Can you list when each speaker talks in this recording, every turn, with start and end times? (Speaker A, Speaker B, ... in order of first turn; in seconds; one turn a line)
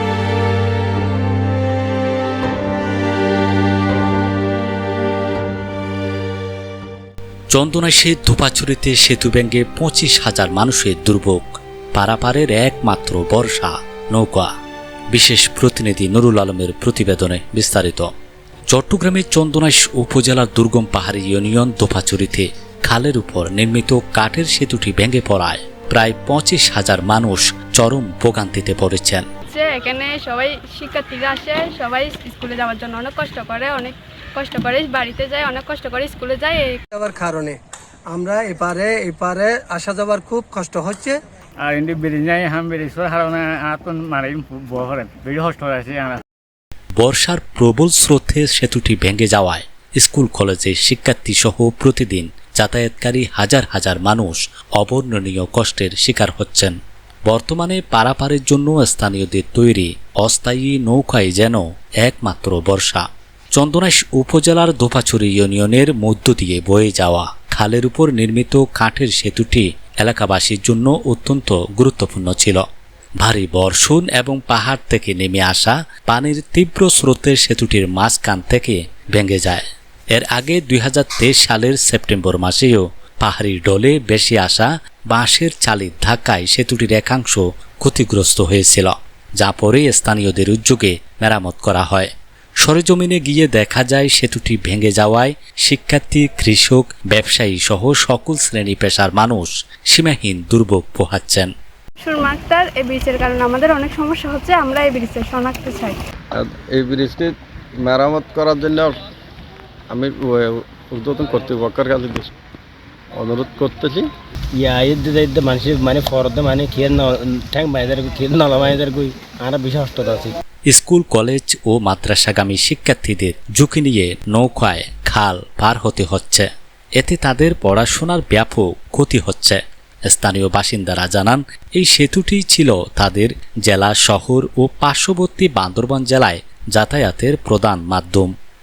Speaker A: 7.5-14.5
Speaker A: 15.1-18.1
Speaker A: 18.7-29.2
Speaker B: 29.6-36.8
Speaker C: 36.9-37.6
Speaker C: 38.1-41.2
Speaker D: 41.7-46.2
Speaker A: 47.0-56.8
Speaker A: 57.3-72.6
Speaker A: 73.2-92.1
Speaker A: 92.6-101.5
Speaker B: 102.0-106.0
Speaker E: 106.3-109.0
Speaker E: 109.9-112.3
Speaker E: 113.2-114.1
Speaker F: 114.6-120.4
Speaker A: 120.7-138.3